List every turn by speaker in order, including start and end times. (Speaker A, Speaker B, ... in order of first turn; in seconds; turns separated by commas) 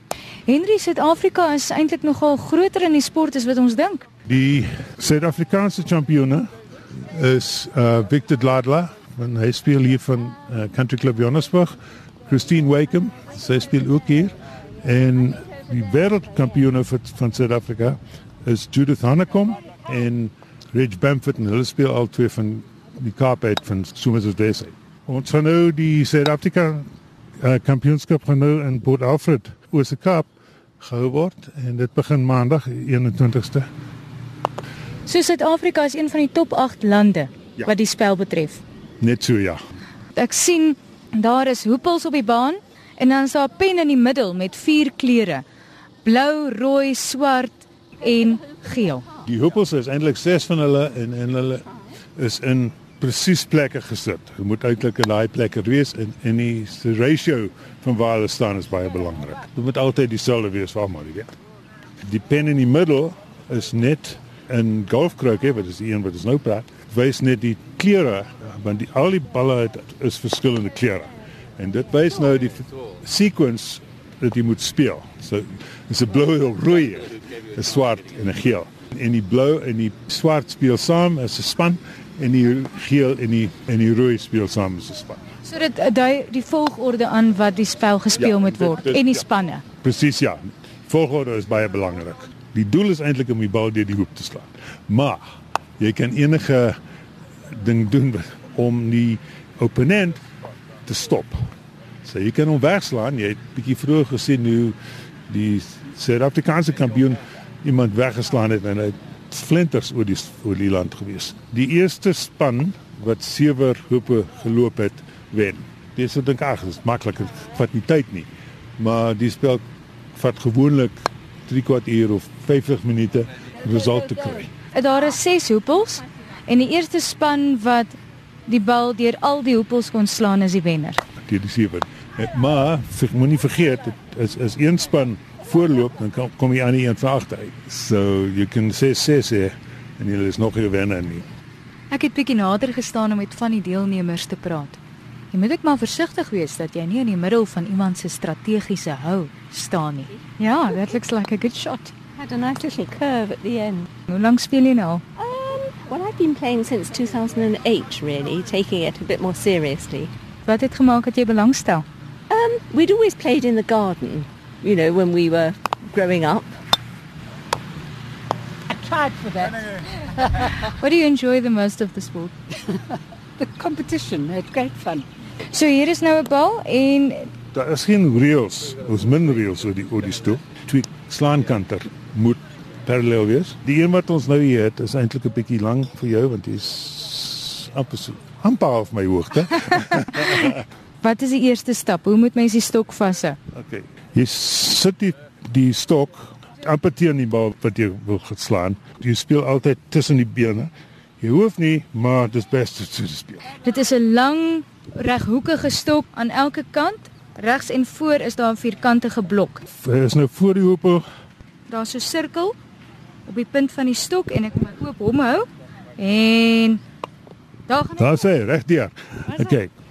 Speaker A: 0.5-4.0, Speaker B: 4.2-6.5, Speaker B: 7.1-33.7, Speaker A: 35.0-38.6, Speaker B: 39.0-39.6, Speaker A: 40.1-45.4, Speaker A: 46.0-49.1, Speaker B: 49.2-51.6, Speaker B: 52.2-61.3, Speaker B: 62.0-85.2, Speaker A: 85.4-89.6, Speaker B: 88.2-89.2, Speaker B: 89.8-95.2, Speaker B: 95.8-96.8, Speaker B: 97.5-100.2, Speaker B: 100.8-101.5, Speaker B: 102.0-104.8, Speaker B: 105.3-124.5, Speaker A: 124.7-131.0, Speaker B: 131.2-141.2, Speaker A: 141.9-144.8, Speaker A: 145.3-151.9, Speaker C: 152.2-153.9, Speaker A: 154.1-155.0, Speaker C: 155.2-160.1, Speaker A: 160.4-161.8, Speaker C: 162.3-166.6, Speaker D: 168.7-170.6, Speaker A: 170.4-172.3, Speaker D: 173.4-175.1, Speaker A: 175.4-177.3, Speaker B: 177.5-190.6, Speaker A: 190.1-193.4, Speaker B: 193.5-203.5, Speaker A: 203.5-209.7, Speaker B: 209.7-211.0, Speaker A: 211.7-212.5, Speaker A: 213.2-216.8, Speaker A: 217.7-218.2, Speaker B: 218.0-219.7